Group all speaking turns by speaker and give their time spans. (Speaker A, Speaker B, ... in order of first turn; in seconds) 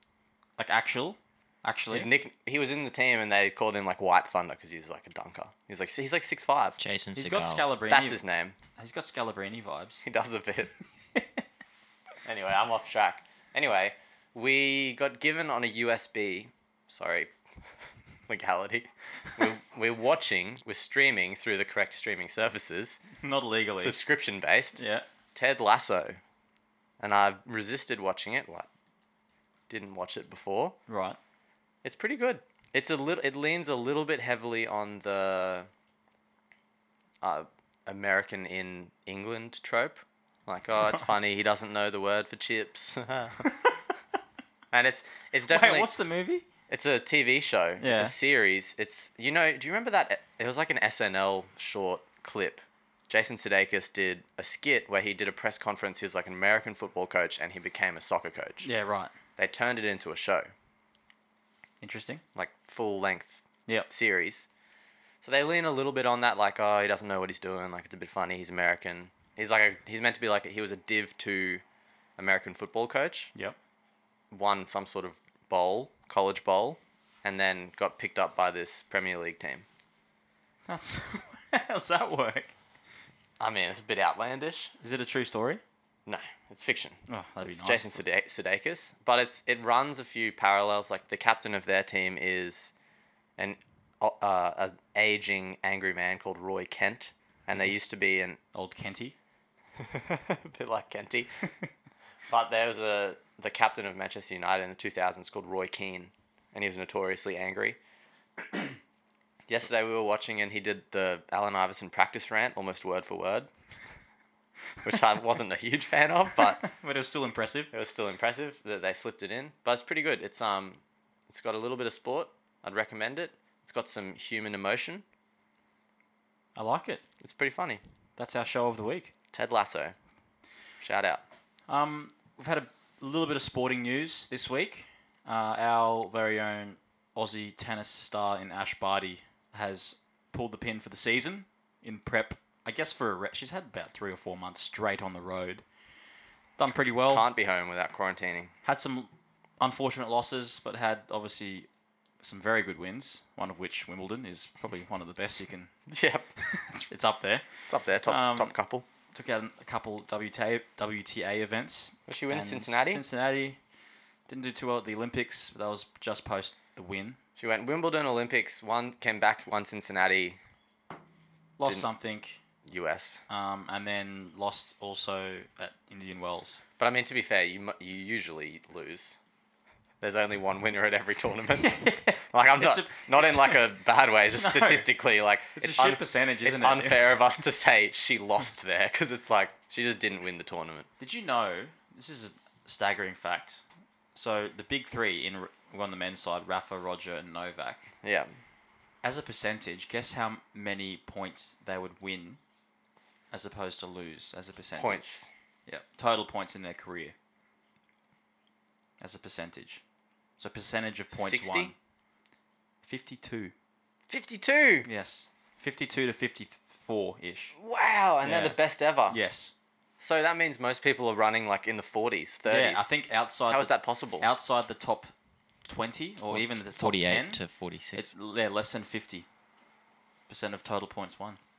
Speaker A: 0.6-2.1, 7.1-8.2, 8.8-10.0, 23.2-24.0, 24.8-25.0, 30.9-31.2, 45.5-46.5, 47.8-48.1, 58.6-59.1, 61.8-62.2, 80.7-82.5, 84.8-85.6, 87.1-88.0, 98.5-99.2, 116.6-117.7, 126.5-127.0, 128.2-129.1, 131.7-145.6, 146.6-147.2, 148.6-151.7, 152.2-155.7, 156.4-157.4, 158.1-158.5, 159.1-163.6, 164.3-167.2, 171.6-172.4, 173.3-176.6, 181.6-183.7, 184.3-184.9, 185.5-187.2, 191.0-193.6, 194.1-197.8, 199.0-202.4, 203.3-205.1, 205.7-207.1, 209.0-209.8, 210.4-211.7, 212.8-213.5, 214.8-217.6, 218.2-219.5, 222.4-225.1, 225.7-227.4, 227.9-229.2, 230.3-231.4
Speaker B: 1.9-6.8, 7.9-8.5, 10.0-10.7, 12.2-17.3, 18.3-23.0, 23.8-24.8, 25.3-26.2, 27.0-28.7, 29.7-30.8, 31.8-35.7, 37.2-43.5, 44.7-46.0, 46.7-58.7, 59.4-60.5, 62.3-64.5, 65.2-71.6, 72.2-73.3, 74.3-79.7, 83.4-84.7, 86.0-92.7, 93.4-98.4, 99.8-101.3, 102.3-107.8, 108.4-108.7, 109.5-113.5, 114.8-116.6, 117.7-125.0, 127.2-127.8, 129.3-129.9, 130.8-131.2, 147.1-148.5, 155.9-156.3, 157.7-158.8, 162.1-163.0, 167.4-170.4, 172.7-173.2, 176.8-179.2, 180.0-190.9, 198.0-198.3, 204.8-205.3, 211.1-211.7, 214.1-214.9, 217.6-219.2, 220.0-222.9, 223.5-224.3
Speaker C: 6.8-7.6, 226.3-228.1